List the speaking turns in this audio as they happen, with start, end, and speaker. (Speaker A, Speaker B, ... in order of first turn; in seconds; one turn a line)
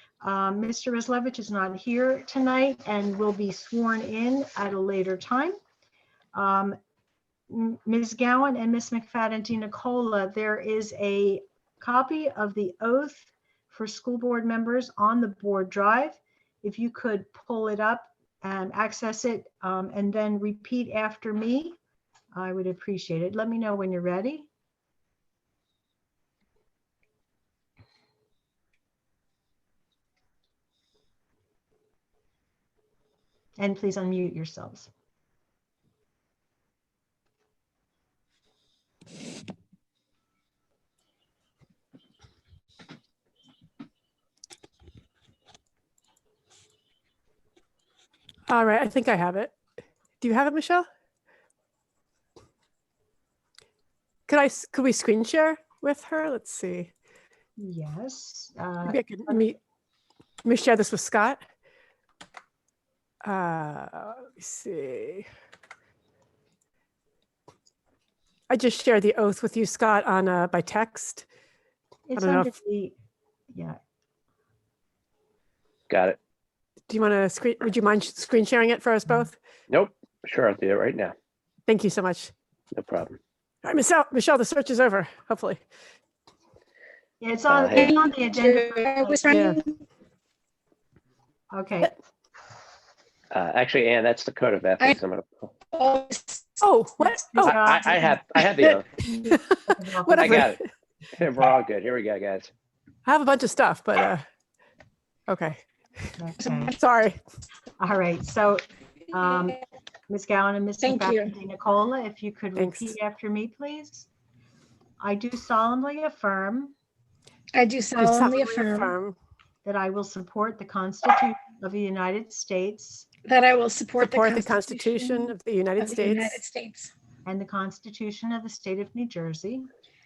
Speaker A: 0.2-5.6
Speaker A: 6.3-6.8
Speaker A: 7.5-21.8
Speaker A: 22.3-24.5
Speaker A: 33.6-34.9
Speaker B: 48.5-49.5
Speaker B: 50.2-50.9
Speaker B: 54.3-56.9
Speaker A: 57.6-59.5
Speaker B: 58.9-59.6
Speaker B: 60.5-61.4
Speaker B: 63.2-65.3
Speaker B: 68.5-71.2
Speaker A: 72.1-73.0
Speaker B: 72.2-72.5
Speaker A: 73.5-73.8
Speaker C: 75.9-76.2
Speaker B: 76.9-79.4
Speaker C: 79.7-81.1
Speaker B: 81.7-82.3
Speaker C: 82.8-83.2
Speaker B: 83.7-85.6
Speaker A: 87.2-89.3
Speaker C: 87.5-87.9
Speaker D: 87.7-89.8
Speaker B: 89.3-89.6
Speaker A: 91.5-91.9
Speaker C: 93.3-95.5
Speaker D: 95.7-96.6
Speaker B: 96.6-97.6
Speaker A: 97.1-98.2
Speaker C: 97.5-99.0
Speaker B: 99.3-100.6
Speaker A: 99.7-100.5
Speaker C: 100.2-100.6
Speaker C: 101.1-102.5
Speaker B: 103.1-104.2
Speaker B: 105.3-105.6
Speaker A: 106.2-106.8
Speaker B: 106.4-107.2
Speaker A: 107.8-114.1
Speaker D: 110.8-111.3
Speaker B: 112.6-113.0
Speaker A: 115.0-116.7
Speaker D: 117.5-118.9
Speaker B: 118.0-119.2
Speaker A: 119.7-123.1
Speaker D: 123.3-126.9
Speaker B: 124.0-126.4
Speaker A: 127.3-129.7